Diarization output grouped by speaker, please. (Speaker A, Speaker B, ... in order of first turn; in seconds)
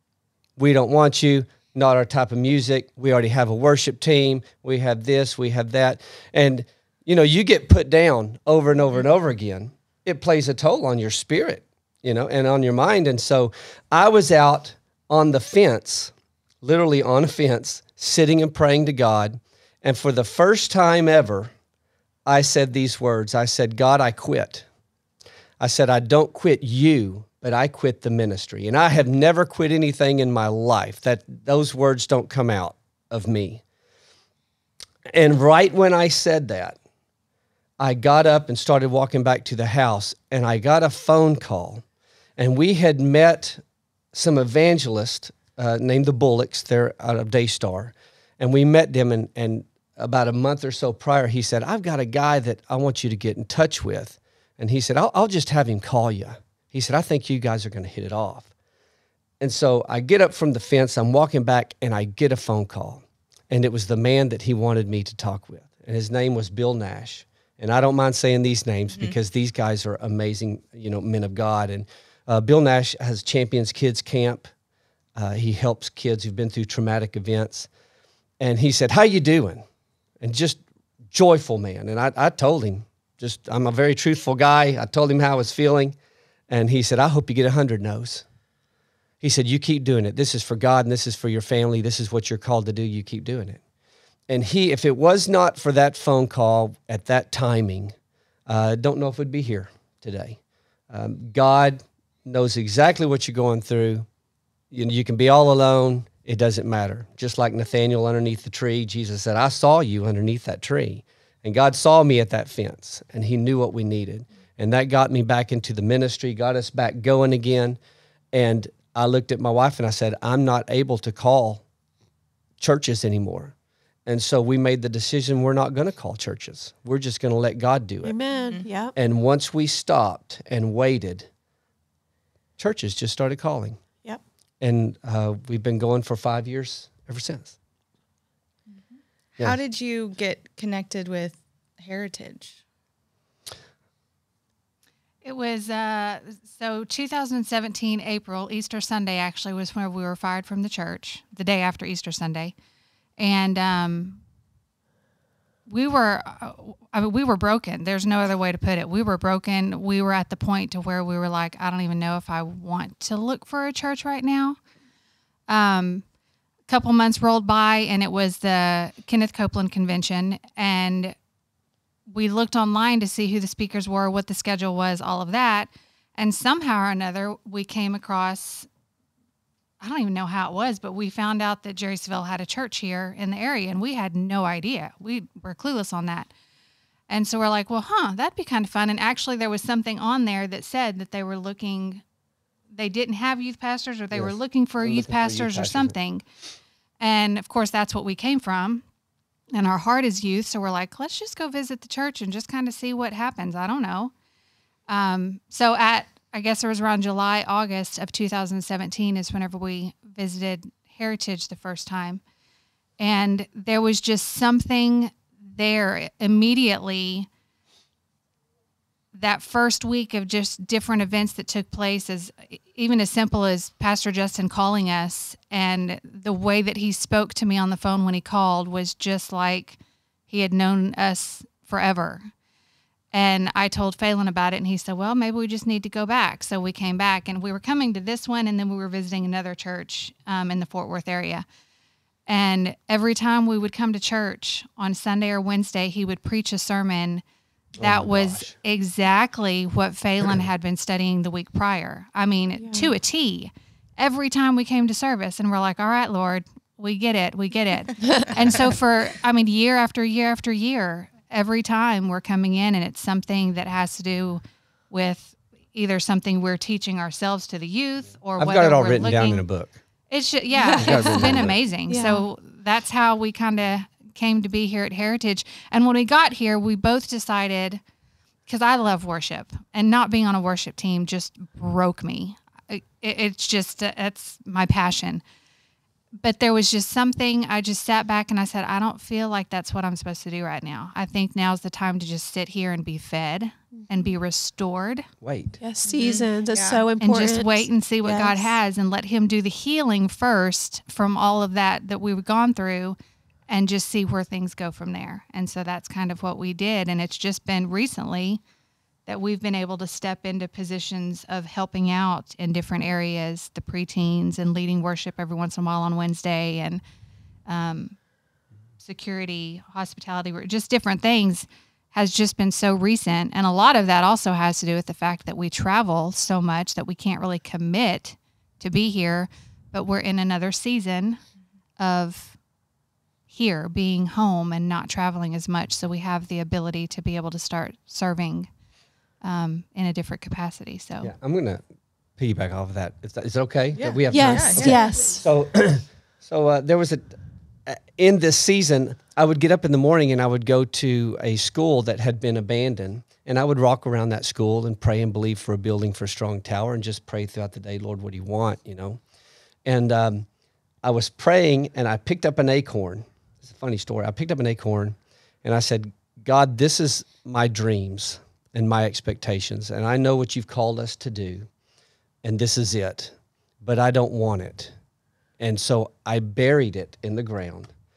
Speaker A: 0.6-21.5, 22.3-24.7, 25.6-33.6, 35.1-36.8, 37.8-41.8, 42.4-43.6, 44.1-58.5, 59.4-74.5, 75.2-77.7, 78.4-79.6, 80.2-86.0, 86.5-88.2, 89.2-93.6, 94.3-97.9, 98.5-100.4, 100.9-104.1, 104.7-117.8, 118.3-121.6, 122.6-123.5, 124.1-128.2, 128.9-131.3, 132.6-133.8, 134.6-137.5, 194.1-195.9, 247.8-248.5, 268.4-269.8, 270.8-271.6, 295.2-295.6, 341.0-341.6, 342.2-359.0, 359.6-360.3, 360.8-371.5, 372.2-374.7, 375.4-377.7
Speaker B: 128.0-128.9, 252.6-252.9, 270.6-272.2, 295.6-298.5, 344.1-345.2
Speaker C: 139.4-142.6, 295.9-296.9, 343.8-344.8
Speaker D: 145.2-152.5, 153.2-154.2, 155.7-164.6, 165.5-166.0, 166.7-171.2, 172.1-178.7, 179.8-186.3, 187.1-192.0, 192.7-196.2, 197.0-198.8, 199.5-204.1, 204.9-212.2, 213.0-217.3, 219.1-229.8, 230.3-232.3, 233.1-241.4, 242.3-247.2, 247.8-269.4, 270.1-277.8, 278.5-285.2, 286.2-295.1, 297.0-303.0, 303.5-308.4, 309.1-316.8, 317.5-318.0, 318.8-331.2, 331.8-332.4, 333.3-338.5, 339.2-341.1